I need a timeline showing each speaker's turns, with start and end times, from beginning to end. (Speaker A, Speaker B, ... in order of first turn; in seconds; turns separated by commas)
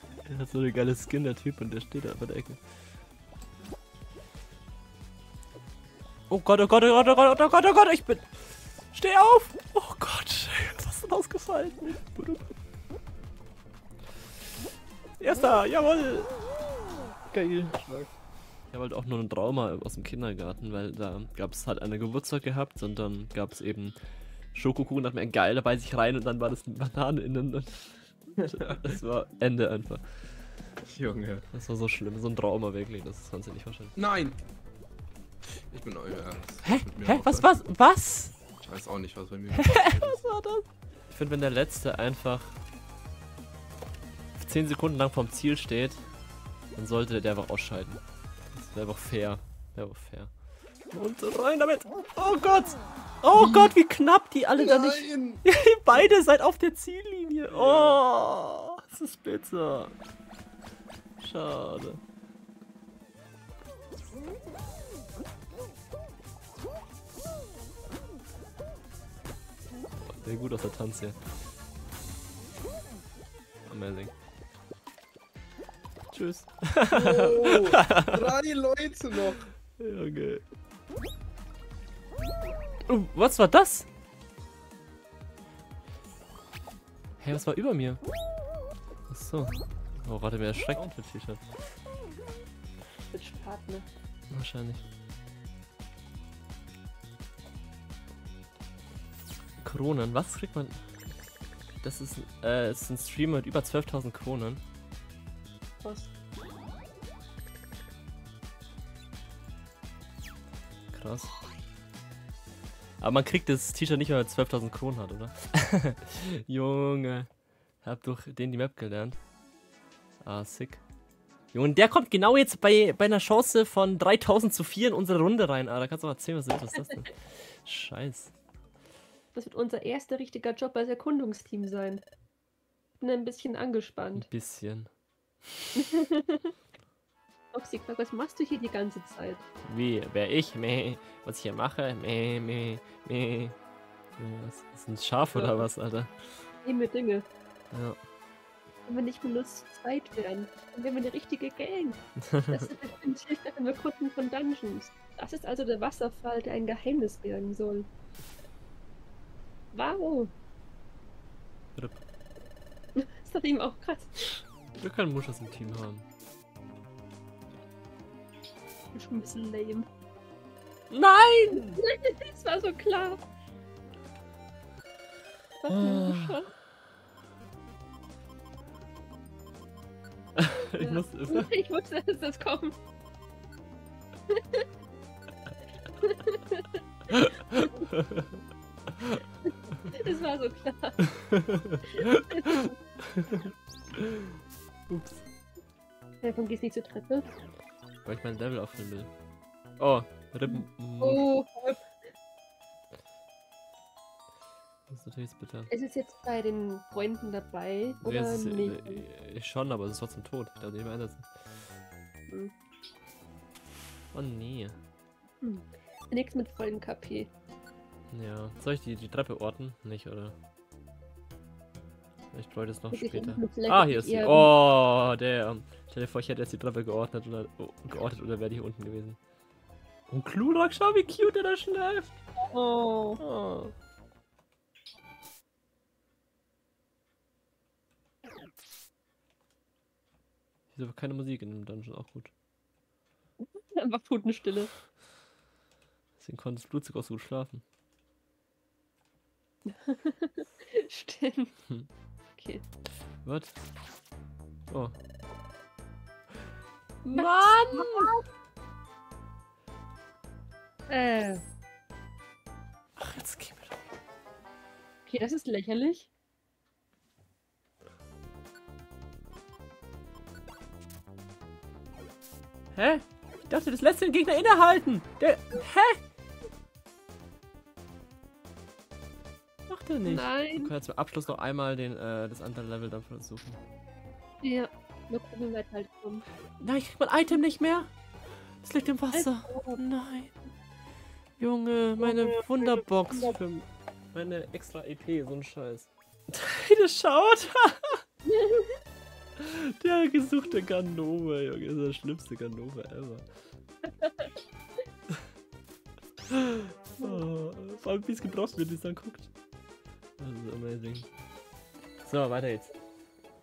Speaker A: 0.3-2.6, Speaker A: 6.3-8.3, Speaker A: 8.9-12.5, Speaker A: 15.2-16.3, Speaker A: 17.3-17.8, Speaker B: 17.8-18.1, Speaker A: 18.7-24.0, Speaker A: 24.5-30.0, Speaker B: 28.6-28.9, Speaker B: 30.9-31.5, Speaker A: 31.5-33.9, Speaker B: 34.0-34.4, Speaker B: 35.7-37.6, Speaker A: 36.6-38.3, Speaker B: 38.6-40.2, Speaker A: 39.6-42.6, Speaker A: 44.4-46.0, Speaker A: 46.8-48.0, Speaker A: 48.5-50.3, Speaker A: 50.9-59.9, Speaker B: 53.3-53.7, Speaker B: 54.6-55.4, Speaker B: 57.5-58.0, Speaker A: 61.2-62.0, Speaker A: 70.1-71.2, Speaker A: 73.7-74.1, Speaker A: 76.1-78.2, Speaker B: 76.9-79.4, Speaker A: 79.8-80.4, Speaker A: 82.9-83.9, Speaker A: 87.2-88.0, Speaker A: 89.1-91.4, Speaker C: 93.1-93.9, Speaker A: 94.3-94.8, Speaker A: 99.6-100.8, Speaker A: 101.8-104.6, Speaker C: 105.8-106.1, Speaker A: 110.9-111.3, Speaker A: 113.0-117.3, Speaker A: 117.8-119.2, Speaker A: 120.2-120.8, Speaker A: 121.5-128.3, Speaker C: 129.3-132.0, Speaker C: 133.0-134.3, Speaker A: 134.2-134.9, Speaker C: 135.8-136.5, Speaker C: 137.5-139.4, Speaker A: 139.7-143.6, Speaker A: 144.2-146.3, Speaker C: 145.3-145.7, Speaker C: 146.6-147.3, Speaker A: 147.7-148.0, Speaker C: 148.9-157.9, Speaker A: 152.2-152.7, Speaker C: 159.7-160.3, Speaker A: 161.8-162.0, Speaker C: 163.0-164.4, Speaker A: 164.8-166.1, Speaker C: 168.9-169.9, Speaker A: 170.9-171.8, Speaker C: 171.5-173.2, Speaker C: 175.6-176.5, Speaker A: 175.7-176.4, Speaker A: 180.4-181.5, Speaker C: 180.7-182.7, Speaker C: 184.3-184.7, Speaker C: 186.0-186.8, Speaker A: 187.1-188.3, Speaker C: 189.9-191.4, Speaker A: 191.3-194.4, Speaker C: 191.9-192.7, Speaker A: 194.9-195.2, Speaker C: 196.2-197.3, Speaker A: 198.1-199.1, Speaker A: 199.8-201.2, Speaker C: 200.5-201.9, Speaker A: 204.9-205.7, Speaker C: 205.7-209.0, Speaker A: 208.0-211.3, Speaker A: 214.1-214.8, Speaker C: 215.4-217.3, Speaker A: 218.1-220.3, Speaker A: 222.3-229.2, Speaker C: 222.9-224.5, Speaker A: 230.1-232.1, Speaker C: 232.4-233.2, Speaker A: 233.2-233.7, Speaker A: 240.7-242.3, Speaker C: 243.4-244.7, Speaker A: 246.2-247.6, Speaker C: 249.7-251.6, Speaker C: 252.4-252.6, Speaker A: 253.2-253.6, Speaker C: 257.1-258.2, Speaker A: 257.1-258.2, Speaker C: 260.9-261.4, Speaker A: 263.0-263.8, Speaker C: 265.1-266.1, Speaker A: 272.7-276.0, Speaker A: 279.7-283.6, Speaker C: 280.1-280.7, Speaker C: 284.4-286.3, Speaker A: 286.6-287.9, Speaker A: 288.6-290.3, Speaker C: 289.1-289.8, Speaker A: 291.4-298.0, Speaker C: 292.0-292.8, Speaker C: 298.3-298.8, Speaker A: 299.4-303.2, Speaker C: 303.9-304.3, Speaker A: 306.3-309.3, Speaker A: 310.2-311.1, Speaker A: 312.0-312.8